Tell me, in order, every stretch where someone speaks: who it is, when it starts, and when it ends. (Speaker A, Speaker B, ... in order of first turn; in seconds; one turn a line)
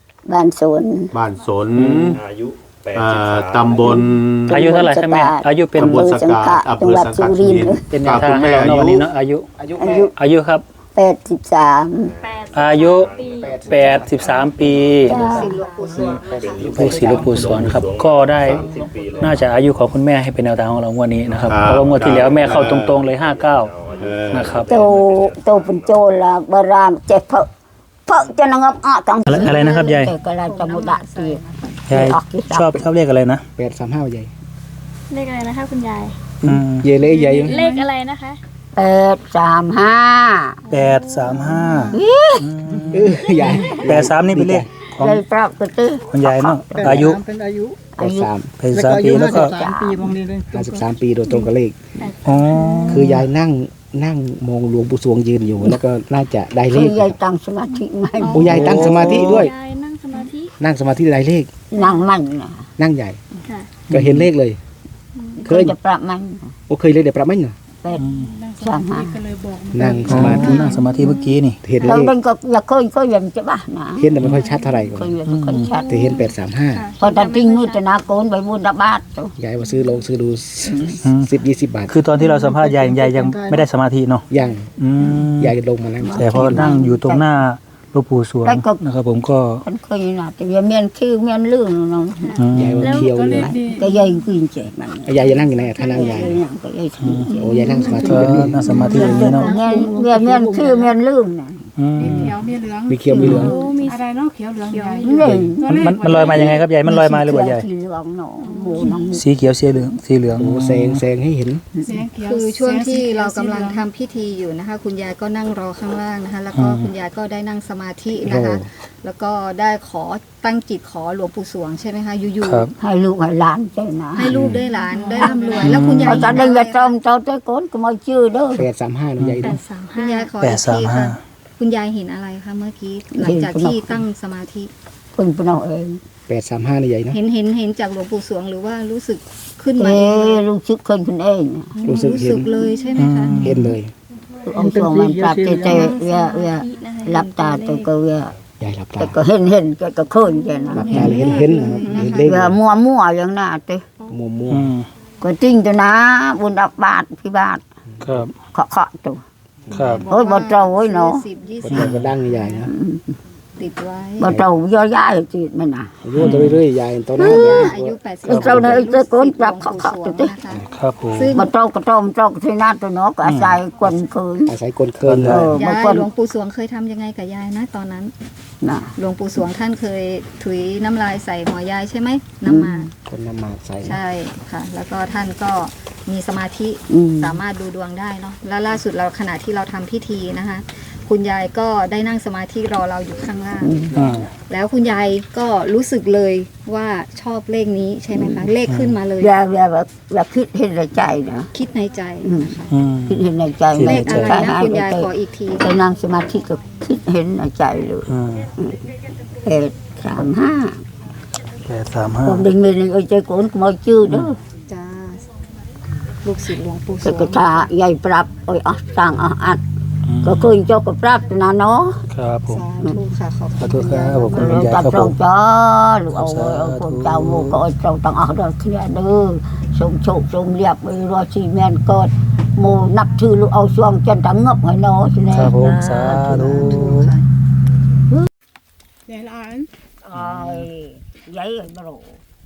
Speaker A: 0.3-1.1
Speaker B: 1.1-2.2
Speaker C: 1.8-2.2
Speaker D: 2.1-4.1
Speaker B: 3.0-4.7
Speaker A: 3.8-7.8
Speaker C: 4.5-6.1
Speaker B: 5.8-9.1
Speaker C: 7.9-9.5
Speaker E: 9.6-10.1
Speaker A: 9.8-10.1
Speaker C: 10.2-10.6
Speaker A: 11.0-12.1
Speaker D: 12.0-15.1
Speaker F: 12.2-14.5
Speaker C: 12.5-13.1
Speaker E: 13.2-17.9
Speaker C: 13.7-15.2
Speaker G: 15.0-16.6
Speaker A: 15.1-15.5
Speaker H: 15.3-16.1
Speaker D: 15.8-19.7
Speaker C: 16.7-23.7
Speaker E: 18.4-18.8
Speaker D: 21.2-26.1
Speaker B: 21.5-23.0
Speaker B: 24.0-24.6
Speaker C: 24.3-24.8
Speaker A: 24.7-27.5
Speaker A: 28.1-32.8
Speaker C: 29.3-30.1
Speaker G: 29.4-29.8
Speaker G: 30.4-31.8
Speaker C: 31.9-33.5
Speaker E: 33.6-34.3
Speaker F: 35.1-36.2
Speaker C: 36.4-36.9
Speaker E: 36.4-37.7
Speaker F: 37.0-38.4
Speaker A: 38.8-40.6
Speaker F: 40.7-42.0
Speaker C: 40.7-45.2
Speaker A: 41.9-42.5
Speaker E: 42.9-44.7
Speaker F: 43.3-43.9
Speaker A: 45.0-47.2
Speaker C: 46.1-47.2
Speaker A: 48.0-48.3
Speaker E: 48.0-48.5
Speaker C: 48.6-49.7
Speaker A: 49.1-50.3
Speaker E: 50.4-51.8
Speaker F: 51.3-53.1
Speaker C: 52.2-53.2
Speaker E: 52.9-57.1
Speaker A: 56.7-58.7
Speaker F: 58.2-60.5
Speaker E: 58.3-59.5
Speaker C: 58.4-59.5
Speaker E: 60.6-61.5
Speaker A: 61.7-62.6
Speaker F: 61.8-62.0
Speaker E: 62.8-63.2
Speaker F: 63.4-63.8
Speaker C: 63.9-64.3
Speaker E: 63.9-64.6
Speaker F: 65.2-65.5
Speaker A: 65.4-66.5
Speaker E: 65.4-65.8
Speaker E: 66.7-67.6
Speaker C: 68.0-68.3
Speaker H: 68.1-70.9
Speaker A: 68.6-69.2
Speaker E: 69.7-70.8
Speaker C: 70.1-71.6
Speaker F: 70.7-71.4
Speaker E: 71.6-72.1
Speaker A: 71.8-74.2
Speaker E: 74.0-75.1
Speaker C: 74.2-74.5
Speaker F: 74.3-74.8
Speaker A: 74.7-76.1
Speaker C: 75.3-75.7
Speaker F: 75.6-77.8
Speaker E: 75.9-76.8
Speaker A: 77.0-79.3
Speaker E: 79.4-82.0
Speaker C: 81.0-81.3
Speaker C: 81.9-85.6
Speaker E: 84.3-84.7
Speaker E: 85.4-86.7
Speaker A: 86.0-87.2
Speaker C: 86.2-89.6
Speaker A: 88.4-88.8
Speaker A: 89.6-92.4
Speaker F: 92.2-93.5
Speaker C: 92.4-93.0
Speaker E: 92.5-93.5
Speaker H: 93.0-93.9
Speaker A: 93.5-98.0
Speaker E: 95.0-96.4
Speaker H: 95.4-96.2
Speaker F: 95.8-96.3
Speaker C: 97.0-97.4
Speaker E: 97.4-98.7
Speaker C: 98.0-99.5
Speaker F: 98.7-100.0
Speaker A: 98.7-101.6
Speaker H: 98.7-99.2
Speaker C: 101.8-102.4
Speaker H: 102.0-106.6
Speaker E: 102.9-103.5
Speaker A: 103.2-103.5
Speaker C: 103.2-103.5
Speaker F: 103.3-104.0
Speaker F: 104.7-105.3
Speaker A: 105.0-109.2
Speaker E: 105.2-105.5
Speaker C: 105.8-107.7
Speaker F: 108.4-109.1
Speaker C: 109.1-111.0
Speaker E: 110.4-111.6
Speaker H: 111.8-113.9
Speaker G: 112.1-122.7
Speaker C: 116.5-116.9
Speaker E: 118.2-118.7
Speaker C: 122.4-122.7
Speaker A: 122.8-124.4
Speaker G: 124.1-126.9
Speaker H: 124.7-126.0
Speaker C: 125.6-126.3
Speaker A: 126.0-128.7
Speaker E: 128.6-129.6
Speaker C: 129.2-129.6
Speaker F: 129.4-130.4
Speaker G: 129.9-134.7
Speaker C: 130.4-131.2
Speaker A: 133.1-134.0
Speaker A: 135.2-136.0
Speaker E: 136.3-137.2
Speaker G: 137.1-140.4
Speaker A: 139.8-141.8
Speaker G: 141.8-143.7
Speaker E: 141.8-142.5
Speaker F: 142.6-143.1
Speaker C: 143.0-143.8
Speaker E: 143.4-143.9
Speaker A: 144.4-148.3
Speaker G: 145.7-146.0
Speaker F: 145.7-147.9
Speaker E: 148.6-149.2
Speaker A: 149.0-151.2
Speaker F: 150.4-150.9
Speaker G: 150.7-152.4
Speaker E: 150.7-152.6
Speaker A: 152.1-153.8
Speaker E: 154.1-154.7
Speaker C: 154.5-154.9
Speaker A: 155.2-157.6
Speaker E: 157.9-158.2
Speaker C: 158.0-158.3
Speaker A: 158.5-159.2
Speaker E: 159.7-160.0
Speaker C: 159.7-160.1
Speaker G: 159.7-162.7
Speaker A: 160.1-161.2
Speaker E: 161.6-162.7
Speaker A: 162.7-163.0
Speaker G: 163.6-164.4
Speaker A: 164.2-165.9
Speaker E: 166.0-168.8
Speaker C: 166.2-166.6
Speaker G: 167.2-171.5
Speaker A: 167.2-167.7
Speaker A: 168.3-170.3
Speaker C: 168.3-168.5
Speaker C: 170.7-171.3
Speaker A: 171.3-174.6
Speaker C: 173.2-173.6
Speaker E: 174.5-175.6
Speaker C: 175.0-175.5
Speaker A: 175.3-176.1
Speaker G: 175.6-178.1
Speaker A: 178.6-178.9
Speaker G: 179.0-182.9
Speaker A: 182.5-182.9
Speaker E: 183.1-184.0
Speaker G: 183.8-199.4
Speaker A: 186.9-187.4
Speaker A: 193.6-193.9
Speaker C: 193.9-194.3
Speaker A: 198.1-198.5
Speaker C: 198.7-199.0
Speaker A: 199.2-201.5
Speaker G: 201.5-202.9
Speaker A: 202.2-208.8
Speaker C: 202.7-204.5
Speaker G: 203.8-205.9
Speaker C: 208.1-208.5
Speaker A: 209.4-210.8
Speaker C: 211.7-212.5
Speaker A: 212.2-214.4
Speaker G: 214.7-215.3
Speaker G: 216.2-217.7
Speaker A: 217.0-219.6
Speaker C: 220.1-220.7
Speaker A: 220.2-222.0
Speaker C: 222.1-222.7
Speaker G: 222.5-224.8
Speaker C: 223.6-225.2
Speaker A: 224.3-236.8
Speaker C: 226.1-227.6
Speaker C: 235.3-237.1
Speaker G: 235.5-237.2
Speaker H: 239.1-239.7
Speaker A: 240.1-242.2
Speaker C: 240.1-240.7